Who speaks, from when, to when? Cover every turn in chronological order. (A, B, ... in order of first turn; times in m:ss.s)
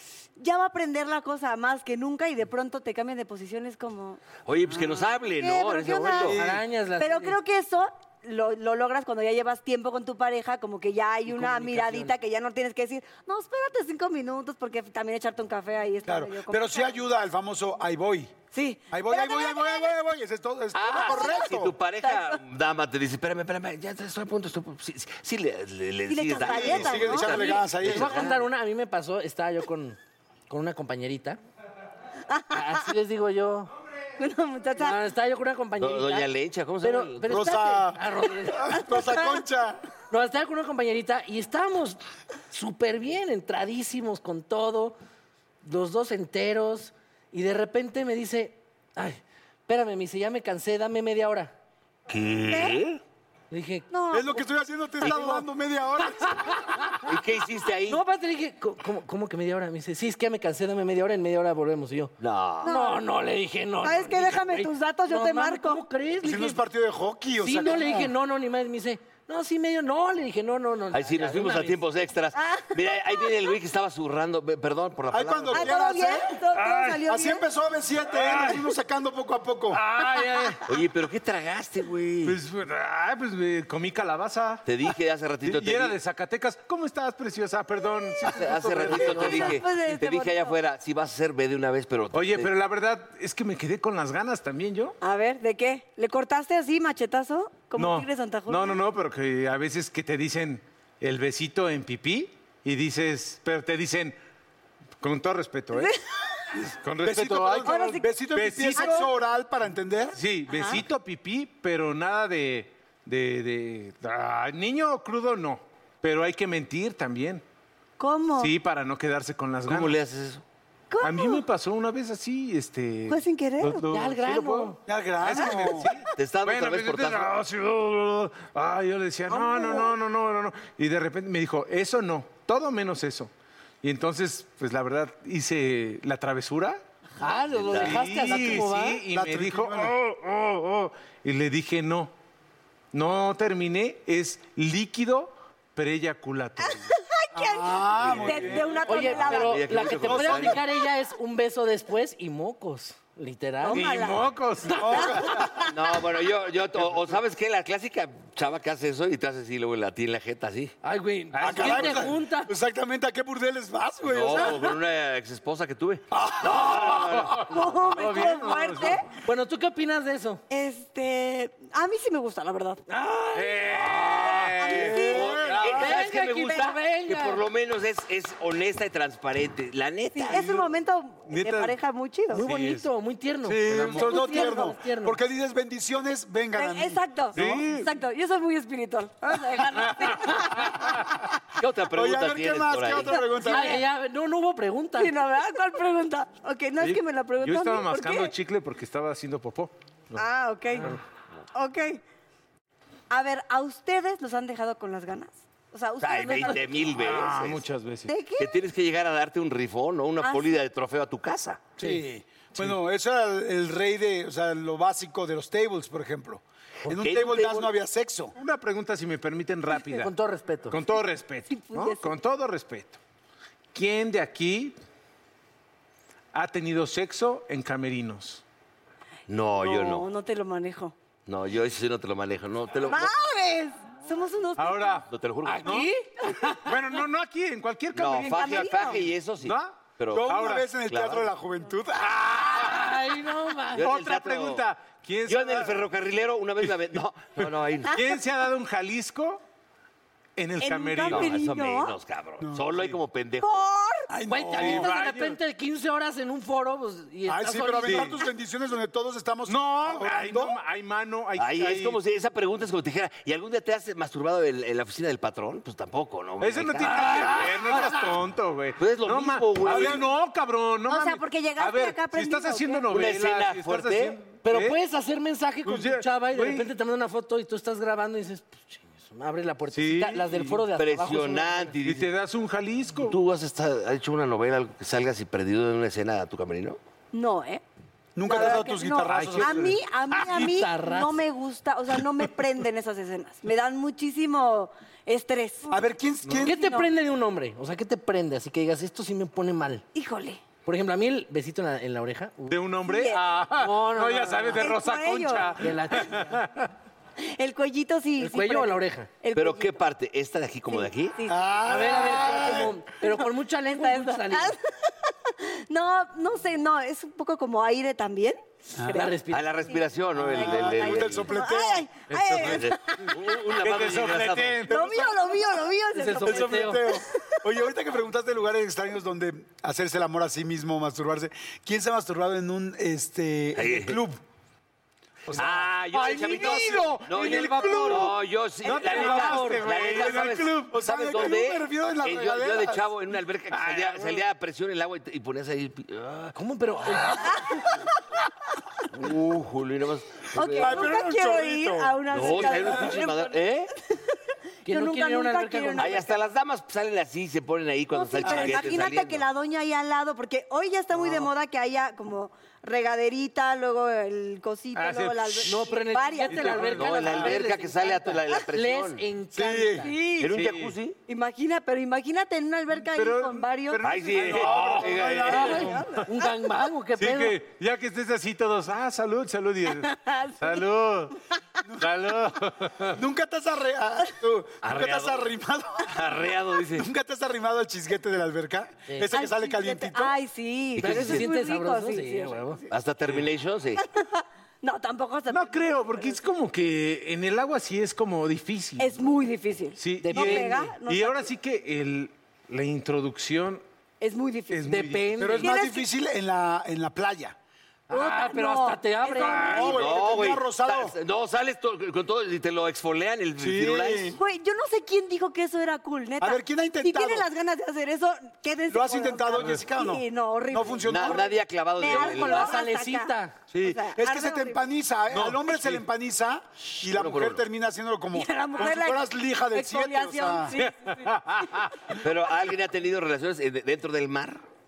0:00.4-0:04.2 A
0:04.4-0:06.4 B
0:05.4-0:06.4 A
0:06.3-0:07.4 C
0:06.4-0:06.6 D
0:07.0-0:17.0 A
0:11.3-0:12.1 C
0:16.0-0:18.3 D
0:18.5-0:19.9 A
0:18.9-0:21.7 D
0:20.7-0:28.4 B
0:20.8-0:21.5 A
0:22.0-0:22.4 A
0:26.1-0:27.3 A
0:26.3-0:28.2 D
0:27.7-0:30.0 C
0:30.5-0:31.4 C
0:32.3-0:32.8 A
0:32.5-0:33.7 C
0:34.2-0:35.0 A
0:34.8-0:36.3 C
0:35.8-0:37.5 B
0:36.8-0:38.8 C
0:37.2-0:39.8 D
0:38.7-0:39.4 A
0:40.1-0:42.0 C
0:42.5-0:45.0 C
0:45.6-0:51.5 C
0:52.1-0:53.0 B
0:52.5-0:52.8 A
0:53.5-0:53.9 C
0:53.9-0:54.4 A
0:54.1-0:56.7 D
0:55.0-0:55.3 A
0:56.4-0:56.7 C
0:57.0-0:58.0 B
0:57.9-1:06.6 C
1:02.2-1:02.8 B
1:02.6-1:03.0 A
1:03.8-1:05.8 A
1:06.2-1:08.1 D
1:07.4-1:11.8 C
1:10.9-1:15.7 B
1:12.3-1:13.3 A
1:15.1-1:16.4 D
1:15.5-1:17.4 A
1:16.6-1:17.0 E
1:17.0-1:19.8 D
1:18.2-1:18.6 E
1:19.7-1:20.6 E
1:20.7-1:22.4 B
1:22.2-1:24.6 E
1:24.6-1:26.0 B
1:25.4-1:29.3 E
1:28.2-1:32.5 B
1:28.5-1:29.6 C
1:29.0-1:30.6 A
1:32.1-1:35.0 E
1:35.0-1:38.8 A
1:37.8-1:44.1 E
1:45.0-1:45.9 E
1:46.8-1:49.0 E
1:47.0-1:50.2 D
1:47.6-1:48.1 A
1:48.8-1:49.0 A
1:50.1-1:57.4 E
1:50.5-1:50.8 A
1:58.0-1:58.5 A
1:58.4-2:00.0 E
1:59.6-2:00.4 B
2:00.9-2:01.4 A
2:01.0-2:13.3 E
2:03.1-2:04.0 A
2:03.9-2:04.8 C
2:04.8-2:05.9 D
2:06.2-2:07.3 B
2:09.3-2:09.9 A
2:13.8-2:16.8 E
2:17.2-2:19.0 C
2:17.4-2:18.1 B
2:17.7-2:22.1 E
2:18.3-2:19.9 D
2:22.9-2:26.9 E
2:26.6-2:30.8 A
2:27.3-2:28.7 D
2:28.0-2:28.8 E
2:28.8-2:34.0 C
2:28.9-2:30.6 B
2:33.6-2:34.2 A
2:33.7-2:35.2 E
2:34.8-2:35.5 D
2:35.0-2:35.7 A
2:35.7-2:40.8 B
2:40.8-2:42.5 C
2:41.3-2:42.2 E
2:41.4-2:44.6 D
2:44.0-2:47.6 B
2:46.4-2:49.0 E
2:47.5-2:49.1 A
2:49.2-2:50.4 C
2:50.5-2:52.8 A
2:52.9-2:53.6 C
2:53.3-2:56.0 E
2:53.7-3:00.6 B
2:54.6-2:55.3 A
2:55.1-2:55.7 D
2:55.6-2:57.4 C
3:00.1-3:02.4 A
3:01.3-3:01.7 E
3:02.3-3:05.2 C
3:02.4-3:02.9 E
3:03.4-3:07.6 D
3:03.7-3:04.0 E
3:03.9-3:04.8 A
3:06.6-3:10.8 A
3:07.3-3:07.9 E
3:09.9-3:11.0 E
3:11.5-3:13.3 B
3:11.9-3:13.8 D
3:13.3-3:15.1 C
3:15.0-3:18.3 A
3:16.8-3:20.2 E
3:20.2-3:21.0 A
3:21.5-3:22.0 A
3:23.1-3:26.6 A
3:26.0-3:27.6 B
3:26.8-3:28.1 E
3:28.1-3:28.6 A
3:28.4-3:31.7 B
3:30.2-3:30.5 A
3:31.8-3:38.3 D
3:36.8-3:37.7 B
3:38.4-3:40.1 E
3:39.8-3:40.8 C
3:40.7-3:43.0 E
3:41.5-3:42.1 A
3:43.7-3:44.8 E
3:46.3-3:48.4 E
3:49.3-3:50.1 B
3:49.6-3:50.9 A
3:51.2-3:53.1 B
3:52.9-3:55.0 A
3:54.6-3:55.1 E
3:55.1-3:55.9 B
3:55.4-3:56.1 C
3:55.6-3:55.9 E
3:56.6-4:00.7 E
3:57.9-4:01.3 B
3:58.3-3:58.9 A
4:00.1-4:02.2 D
4:02.0-4:02.9 E
4:02.4-4:03.9 C
4:03.7-4:04.6 B
4:03.8-4:05.9 E
4:05.2-4:07.9 B
4:07.4-4:09.4 E
4:10.4-4:11.4 E
4:10.6-4:11.9 A
4:11.0-4:13.6 B
4:12.4-4:12.8 D
4:13.4-4:14.1 A
4:14.1-4:14.9 D
4:14.3-4:18.1 C
4:14.4-4:15.4 E
4:17.2-4:20.6 D
4:17.8-4:18.1 E
4:19.5-4:22.0 E
4:21.4-4:27.5 B
4:26.4-4:34.8 E
4:26.8-4:28.1 C
4:28.8-4:30.0 B
4:29.7-4:30.0 D
4:30.9-4:32.9 A
4:32.9-4:34.2 B
4:34.4-4:41.7 C
4:35.6-4:36.7 E
4:39.7-4:40.7 E
4:40.8-4:42.1 B
4:41.8-4:43.2 E
4:43.1-4:46.8 B
4:47.1-4:47.6 A
4:48.2-4:49.8 D
4:48.2-4:55.8 A
4:49.1-4:49.6 E
4:50.1-4:51.2 C
4:55.7-4:56.6 D
4:56.4-4:59.8 C
4:56.5-4:56.9 A
4:59.9-5:00.4 A
5:00.6-5:02.6 C
5:02.5-5:06.7 E
5:02.8-5:03.2 A
5:03.5-5:04.6 C
5:04.5-5:05.6 A
5:05.6-5:06.4 C
5:07.2-5:09.8 A
5:08.2-5:09.2 C
5:09.3-5:11.2 B
5:10.7-5:23.2 A
5:11.3-5:12.7 D
5:11.6-5:14.6 C
5:18.9-5:19.5 C
5:19.3-5:21.3 B
5:20.2-5:21.9 D
5:22.1-5:22.6 E
5:22.4-5:24.7 B
5:23.6-5:24.7 E
5:24.7-5:25.4 D
5:24.7-5:27.4 A
5:25.9-5:26.8 C
5:26.2-5:34.2 D
5:33.5-5:34.0 B
5:35.3-5:41.3 E
5:35.3-5:46.4 B
5:36.0-5:42.8 D
5:43.5-5:44.2 E
5:46.3-5:47.4 C
5:47.2-5:47.9 A
5:48.9-5:50.9 B
5:50.3-5:53.4 A
5:50.6-5:52.7 D
5:52.1-5:53.7 B
5:53.9-5:56.2 A
5:54.6-5:56.0 C
5:55.8-5:59.2 B
5:57.9-6:06.7 A
6:04.7-6:05.7 E
6:05.5-6:09.9 C
6:06.3-6:07.3 E
6:06.7-6:09.0 B
6:09.3-6:09.9 D
6:09.8-6:10.3 A
6:10.2-6:11.0 B
6:10.2-6:10.7 E
6:11.1-6:13.8 A
6:12.8-6:16.0 E
6:13.8-6:15.7 B
6:14.1-6:15.8 D
6:15.3-6:16.1 A
6:15.3-6:17.4 C
6:17.0-6:21.1 E
6:19.7-6:20.6 A
6:21.8-6:23.0 E
6:22.9-6:26.2 D
6:24.6-6:25.3 B
6:25.9-6:26.9 B
6:26.7-6:30.1 D
6:29.1-6:32.7 A
6:30.8-6:31.3 B
6:30.8-6:32.6 C
6:32.7-6:33.8 B
6:33.8-6:36.2 A
6:35.3-6:39.0 E
6:38.8-6:41.3 A
6:39.8-6:43.6 E
6:40.0-6:40.6 C
6:44.0-6:44.8 A
6:44.5-6:45.2 E
6:44.7-6:45.5 C
6:45.2-6:47.4 D
6:45.4-6:45.9 A
6:47.9-6:49.7 A
6:47.9-6:49.8 C
6:49.3-6:51.0 D
6:49.6-6:54.2 B
6:53.4-6:54.2 D
6:54.2-7:01.3 A
6:56.2-6:57.2 D
6:58.7-7:01.3 D
7:00.8-7:02.6 B
7:01.8-7:04.6 A
7:01.8-7:03.4 C
7:03.5-7:10.5 D
7:05.1-7:05.8 E
7:06.8-7:07.4 B
7:08.1-7:11.1 A
7:10.6-7:12.0 E
7:12.0-7:14.4 B